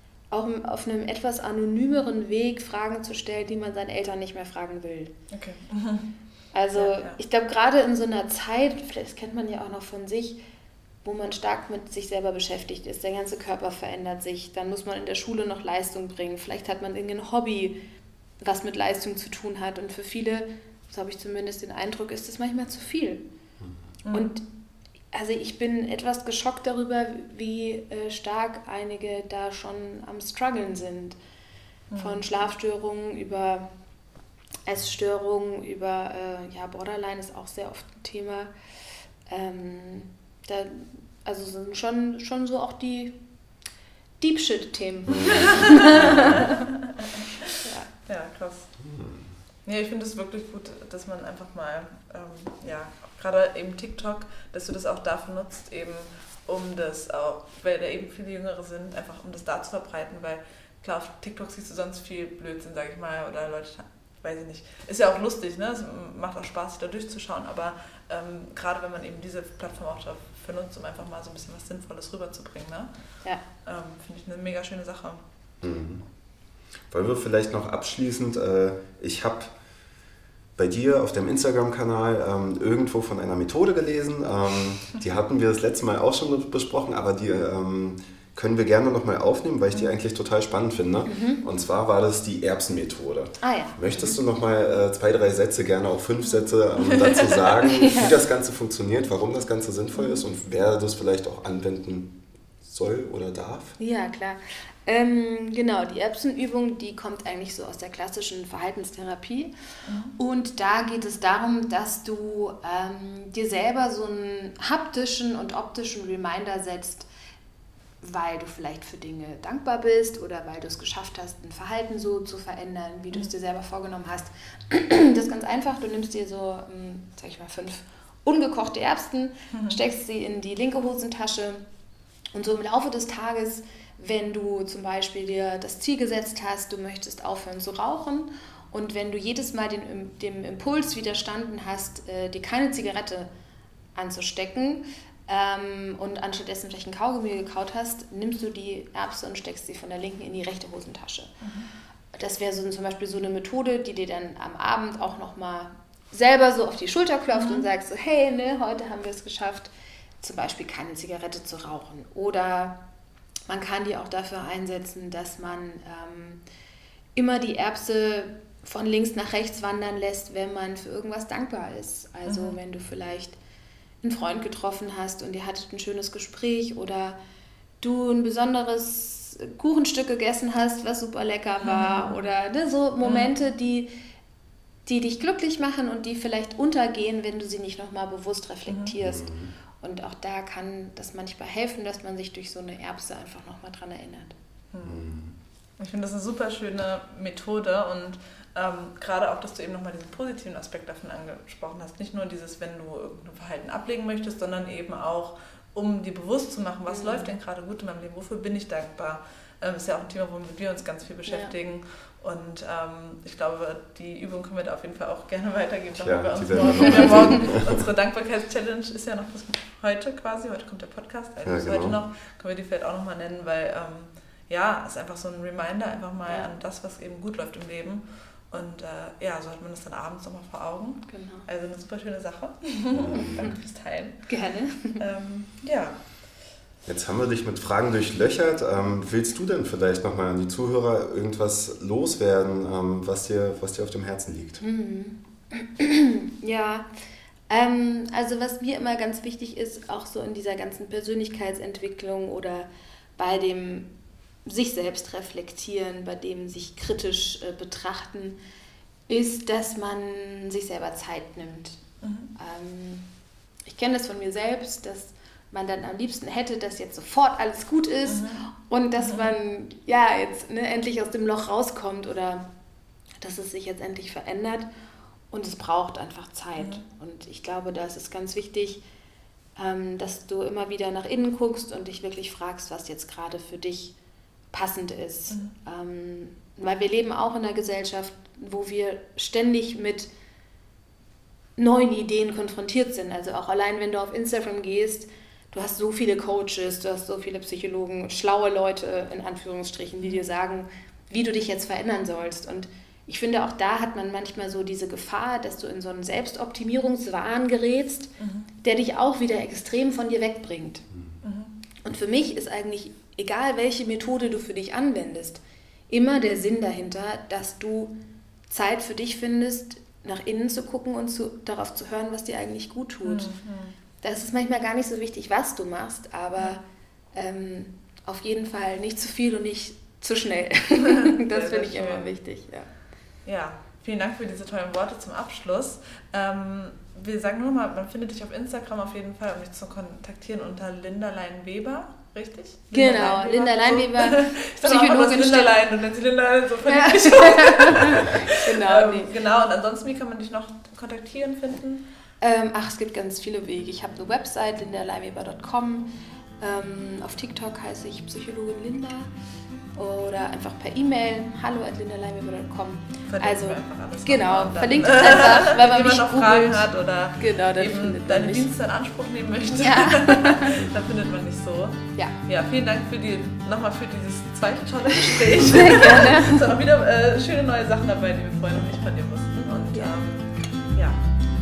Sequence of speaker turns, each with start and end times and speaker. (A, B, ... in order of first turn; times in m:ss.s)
0:00.3-0:05.1 A
0:05.3-0:06.1 B
0:06.5-0:10.4 A
0:06.7-0:07.2 B
0:11.0-0:17.8 A
0:18.4-0:23.2 A
0:24.0-0:24.3 B
0:24.1-0:24.4 A
0:25.1-0:31.2 A
0:31.9-0:32.2 B
0:32.0-0:33.7 A
0:34.7-0:38.5 A
0:39.3-0:43.2 A
0:44.2-0:46.6 A
0:45.1-0:46.4 C
0:45.3-0:47.5 B
0:47.6-0:47.9 A
0:48.0-0:48.7 B
0:48.8-0:49.3 C
0:49.6-1:12.9 B
1:13.6-1:15.2 B
1:15.6-1:16.0 C
1:16.9-1:19.5 C
1:20.6-1:43.7 C
1:31.1-1:31.4 A
1:33.4-1:34.1 A
1:36.8-1:37.5 B
1:37.8-1:38.1 A
1:43.8-1:49.5 A
1:49.8-1:50.1 B
1:50.2-1:57.1 A
1:58.0-2:11.6 A
2:09.5-2:09.8 B
2:12.3-2:23.3 A
2:23.9-2:31.4 A
2:31.4-2:31.7 B
2:32.1-2:39.7 A
2:37.3-2:37.7 B
2:40.2-2:42.8 A
2:43.5-2:46.4 A
2:47.2-2:53.4 A
2:52.3-2:52.6 B
2:54.0-2:57.2 A
2:57.8-3:03.9 A
3:01.6-3:02.2 B
3:03.0-3:03.3 B
3:04.8-3:14.3 A
3:08.7-3:08.9 B
3:09.0-3:09.5 C
3:14.7-3:15.0 B
3:14.8-3:15.3 C
3:15.8-3:54.3 B
3:26.9-3:27.3 A
3:31.2-3:31.5 A
3:35.9-3:37.8 C
3:36.8-3:37.2 A
3:41.4-3:42.0 C
3:51.1-3:51.4 A
3:52.9-3:53.5 C
3:53.1-3:53.5 A
3:54.3-3:55.0 A
3:55.0-3:56.0 B
3:56.8-4:04.6 C
4:04.6-4:06.9 A
4:07.5-4:13.9 A
4:14.4-4:18.4 A
4:19.1-4:21.8 A
4:22.0-4:22.3 B
4:22.3-4:23.1 A
4:23.7-4:32.4 A
4:28.1-4:28.5 B
4:29.0-4:29.3 B
4:33.2-4:34.7 A
4:35.3-4:38.8 A
4:39.6-4:43.9 A
4:44.5-4:50.1 A
4:51.6-5:10.8 A
5:08.2-5:08.5 B
5:11.2-5:11.6 B
5:11.8-5:17.9 A
5:18.5-5:23.3 A
5:23.0-5:23.8 B
5:24.0-5:26.6 A
5:27.1-5:32.7 A
5:30.8-5:32.1 B
5:33.2-5:51.8 B
5:42.7-5:45.6 A
5:46.6-5:49.1 A
5:52.2-5:55.9 A
5:56.4-5:59.1 A
5:59.7-6:08.5 A
6:03.1-6:21.0 B
6:09.6-6:10.7 A
6:15.4-6:16.4 A